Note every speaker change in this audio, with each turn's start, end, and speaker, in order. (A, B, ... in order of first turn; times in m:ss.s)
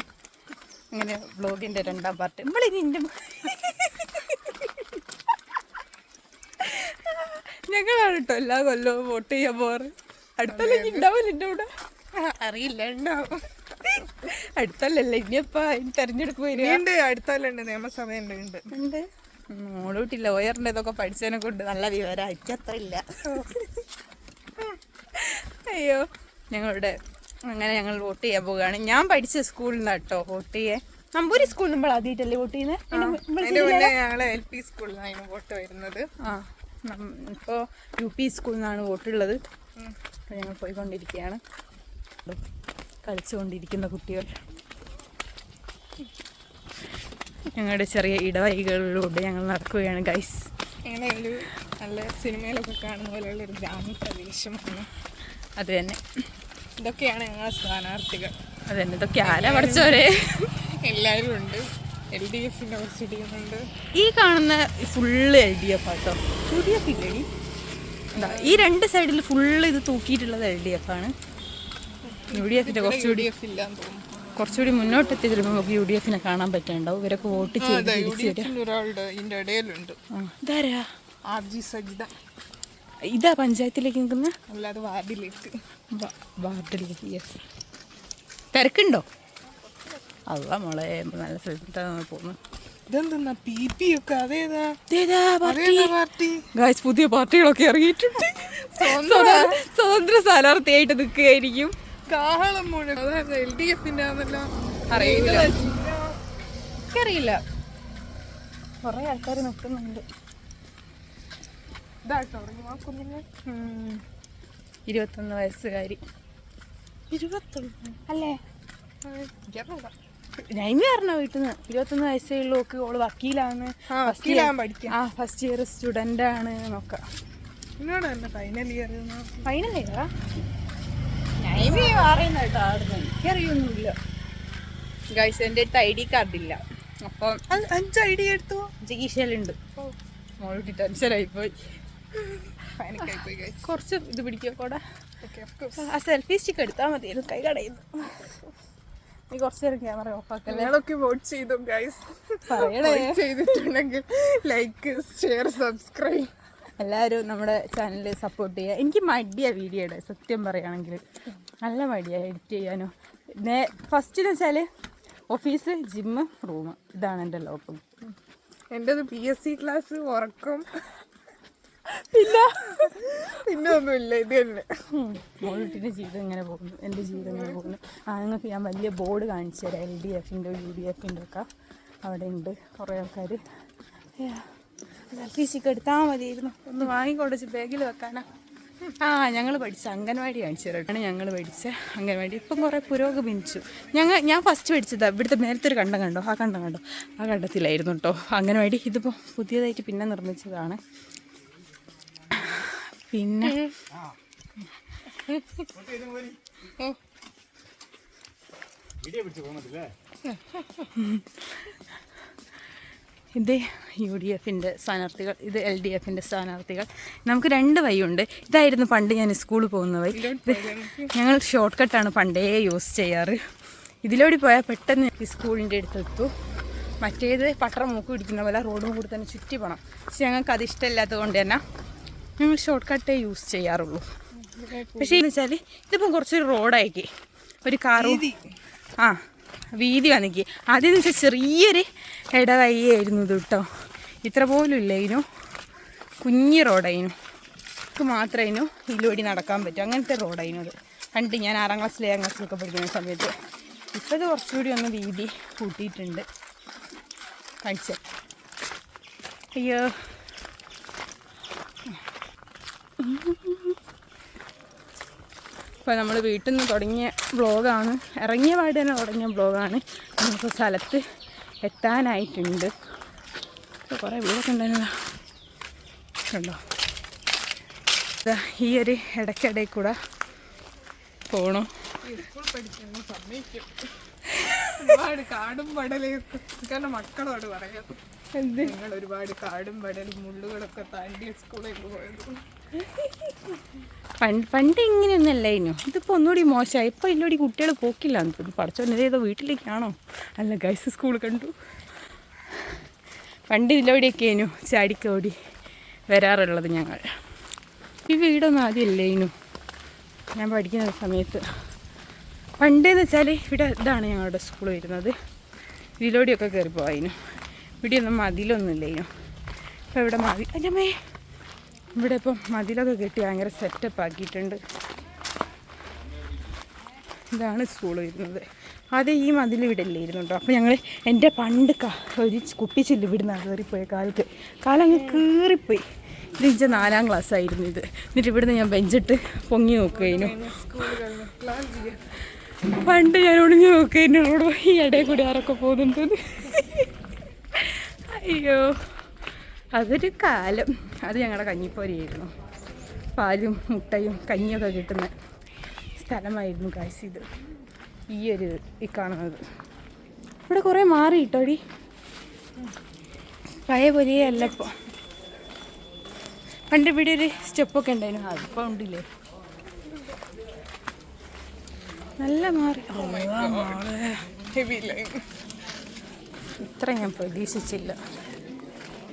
0:00.9-0:04.9 A
0:06.6-0:11.7 A
0:10.5-0:11.1 B
0:12.2-0:13.5 B
0:14.0-0:16.8 A
0:16.5-0:18.7 B
0:18.7-0:23.5 A
0:23.3-0:23.6 B
0:25.1-0:27.0 A
0:27.5-0:33.9 A
0:32.9-0:36.1 B
0:36.2-0:39.4 A
0:40.3-0:41.4 A
0:43.0-0:44.3 A
0:47.5-0:50.5 A
0:50.9-0:54.9 B
0:55.6-0:56.0 A
0:56.8-0:58.4 B
0:58.7-1:00.6 A
0:59.2-1:00.0 B
1:00.6-1:03.6 B
1:04.0-1:07.3 A
1:08.2-1:08.7 B
1:08.2-1:11.1 A
1:12.1-1:14.0 B
1:12.3-1:13.3 A
1:14.4-1:18.5 A
1:17.5-1:20.0 B
1:20.1-1:20.8 A
1:21.3-1:22.1 B
1:23.1-1:24.4 A
1:24.5-1:25.6 B
1:25.9-1:27.4 A
1:28.5-1:29.0 A
1:30.3-1:32.4 A
1:32.9-1:34.8 B
1:34.9-1:35.9 A
1:35.4-1:36.5 B
1:36.6-1:41.8 A
1:38.5-1:39.6 B
1:42.1-1:46.2 B
1:44.9-1:45.5 A
1:46.9-1:47.4 A
1:48.8-1:50.0 A
1:52.0-1:54.0 B
1:54.9-1:56.0 A
1:57.1-1:58.0 B
1:58.1-1:58.4 A
1:59.0-1:59.9 B
2:00.5-2:07.0 A
2:03.9-2:05.0 B
2:07.8-2:09.4 B
2:09.4-2:10.1 A
2:11.4-2:14.0 A
2:11.6-2:12.1 B
2:15.1-2:17.5 A
2:17.5-2:18.7 B
2:18.8-2:19.6 A
2:20.4-2:21.5 A
2:22.6-2:23.7 B
2:23.6-2:24.8 A
2:25.2-2:25.8 B
2:25.8-2:28.3 A
2:29.3-2:30.7 A
2:30.5-2:36.3 B
2:32.5-2:33.2 A
2:36.8-2:41.0 A
2:41.6-2:44.7 A
2:45.3-2:47.8 A
2:48.7-2:50.8 B
2:51.9-2:53.1 A
2:52.8-2:54.7 B
2:54.9-3:01.5 A
2:57.2-2:57.7 B
3:02.0-3:03.4 A
3:04.2-3:04.5 A
3:05.1-3:08.3 A
3:08.9-3:20.8 A
3:22.4-3:23.7 A
3:31.0-3:31.7 A
3:33.4-3:43.4 A
3:40.1-3:41.1 B
3:44.0-3:46.3 A
3:47.0-3:51.6 A
3:52.4-3:54.0 A
3:54.4-3:55.2 B
3:55.0-3:57.1 A
3:57.6-3:58.3 A
3:58.0-3:58.5 B
3:59.8-4:03.6 A
4:04.2-4:05.2 A
4:06.2-4:07.2 A
4:08.0-4:13.3 A
4:13.9-4:16.2 A
4:17.6-4:18.0 A
4:19.6-4:19.9 A
4:23.0-4:23.8 A
4:25.8-4:31.0 A
4:31.6-4:32.7 A
4:33.9-4:35.0 A
4:36.3-4:36.6 A
4:38.2-4:40.0 A
4:41.3-4:41.7 A
4:42.0-4:43.7 B
4:44.5-4:48.0 B
4:48.3-4:48.7 A
4:48.6-4:52.4 B
4:54.2-5:01.5 A
5:03.5-5:05.4 A
5:06.1-5:07.0 A
5:08.1-5:09.3 A
5:10.4-5:11.4 A
5:12.6-5:15.1 A
5:16.0-5:17.2 A
5:17.8-5:19.1 A
5:19.9-5:20.9 A
5:22.0-5:24.6 A
5:27.3-5:28.4 A
5:28.9-5:35.8 A
5:34.9-5:35.2 B
5:36.4-5:40.4 A
5:39.9-5:42.0 B
5:42.7-5:46.9 A
5:47.5-5:48.7 A
5:49.8-5:52.3 A
5:53.2-5:55.1 A
5:56.0-5:57.2 A
5:58.1-5:59.4 A
6:00.5-6:01.6 A
6:03.7-6:04.8 A
6:06.7-6:09.1 A
6:12.2-6:14.2 A
6:12.9-6:13.8 B
6:14.5-6:15.2 B
6:16.6-6:18.0 A